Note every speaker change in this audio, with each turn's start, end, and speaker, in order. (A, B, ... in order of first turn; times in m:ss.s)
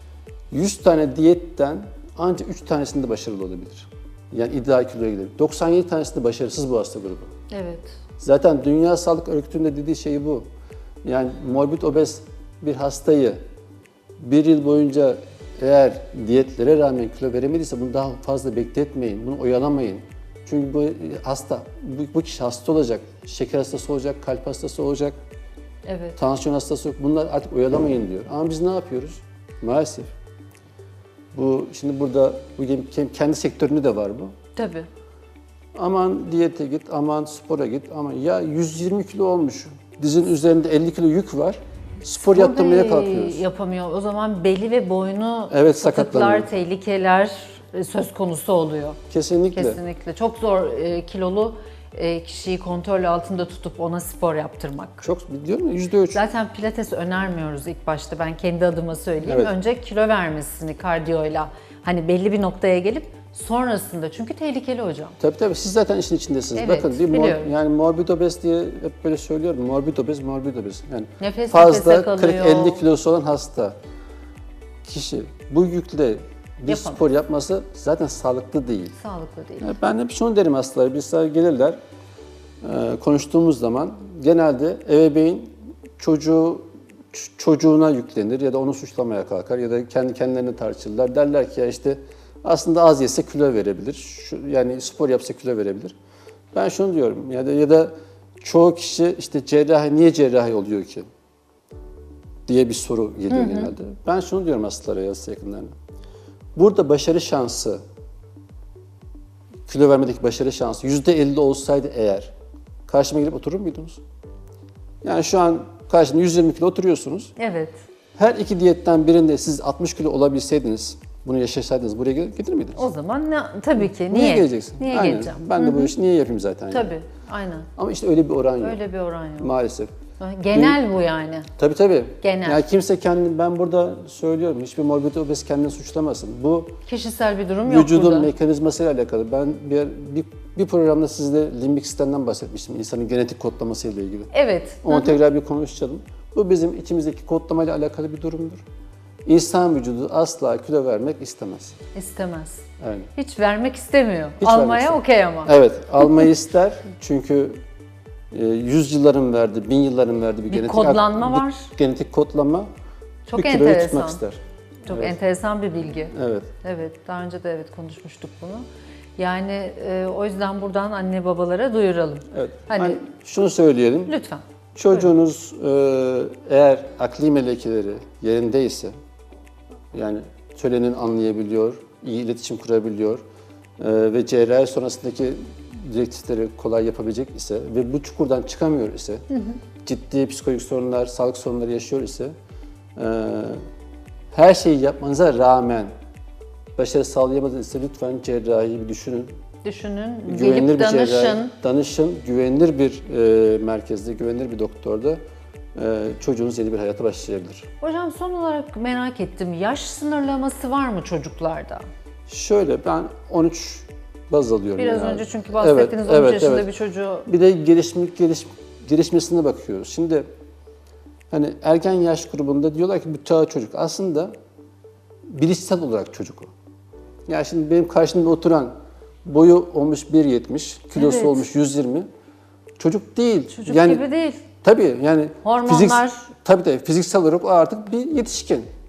0:00.5-0:07.3 A
0:07.5-0:07.9 B
0:08.2-0:10.5 A
0:11.0-0:13.4 A
0:14.2-0:25.2 A
0:25.8-0:26.2 B
0:26.2-0:30.1 A
0:31.3-0:34.3 A
0:34.6-0:34.9 B
0:35.8-0:43.4 A
0:42.2-0:49.0 B
0:45.5-0:46.5 A
0:49.1-0:49.8 A
0:49.5-0:55.0 B
0:55.0-0:56.2 A
0:56.1-1:05.2 B
0:59.2-0:59.5 A
1:05.2-1:13.8 A
1:06.6-1:07.5 B
1:11.2-1:12.8 B
1:14.8-1:19.0 A
1:16.7-1:17.0 B
1:19.0-1:19.8 B
1:19.6-1:21.8 A
1:22.6-1:36.0 A
1:36.5-1:41.1 A
1:42.5-1:45.8 A
1:43.3-1:43.7 B
1:46.6-1:47.8 A
1:49.7-1:52.3 A
1:52.9-1:54.0 A
1:55.0-1:57.3 A
1:57.4-1:57.8 B
1:58.2-2:02.8 A
2:02.8-2:05.9 B
2:03.8-2:07.0 A
2:06.7-2:07.7 B
2:07.8-2:08.8 A
2:08.6-2:09.5 B
2:09.4-2:09.9 A
2:10.2-2:11.5 B
2:10.5-2:10.8 A
2:11.6-2:16.8 A
2:12.2-2:12.6 B
2:16.9-2:18.3 B
2:17.6-2:24.3 A
2:24.3-2:25.2 B
2:24.8-2:28.6 A
2:29.2-2:31.8 A
2:31.9-2:35.5 B
2:32.8-2:33.1 A
2:34.4-2:37.6 A
2:38.3-2:42.7 A
2:40.5-2:41.7 B
2:43.3-2:44.2 B
2:43.3-2:45.2 A
2:44.9-2:48.6 B
2:46.1-2:46.5 A
2:49.2-2:53.0 B
2:52.3-2:54.2 A
2:54.1-2:54.4 B
2:54.8-2:58.9 A
2:59.9-3:03.2 A
3:03.8-3:09.2 A
3:09.8-3:12.3 A
3:13.0-3:13.6 A
3:14.3-3:15.9 A
3:16.8-3:19.3 A
3:19.6-3:21.5 B
3:20.3-3:25.2 A
3:25.8-3:27.7 A
3:27.8-3:31.8 B
3:32.3-3:36.7 A
3:34.8-3:37.3 B
3:37.3-3:40.3 A
3:41.3-3:44.3 A
3:45.3-3:46.5 A
3:47.3-3:48.7 A
3:49.2-3:52.1 A
3:51.0-3:51.4 B
3:52.8-3:54.1 A
3:53.5-3:54.4 B
3:54.6-3:58.7 A
3:55.4-3:56.3 B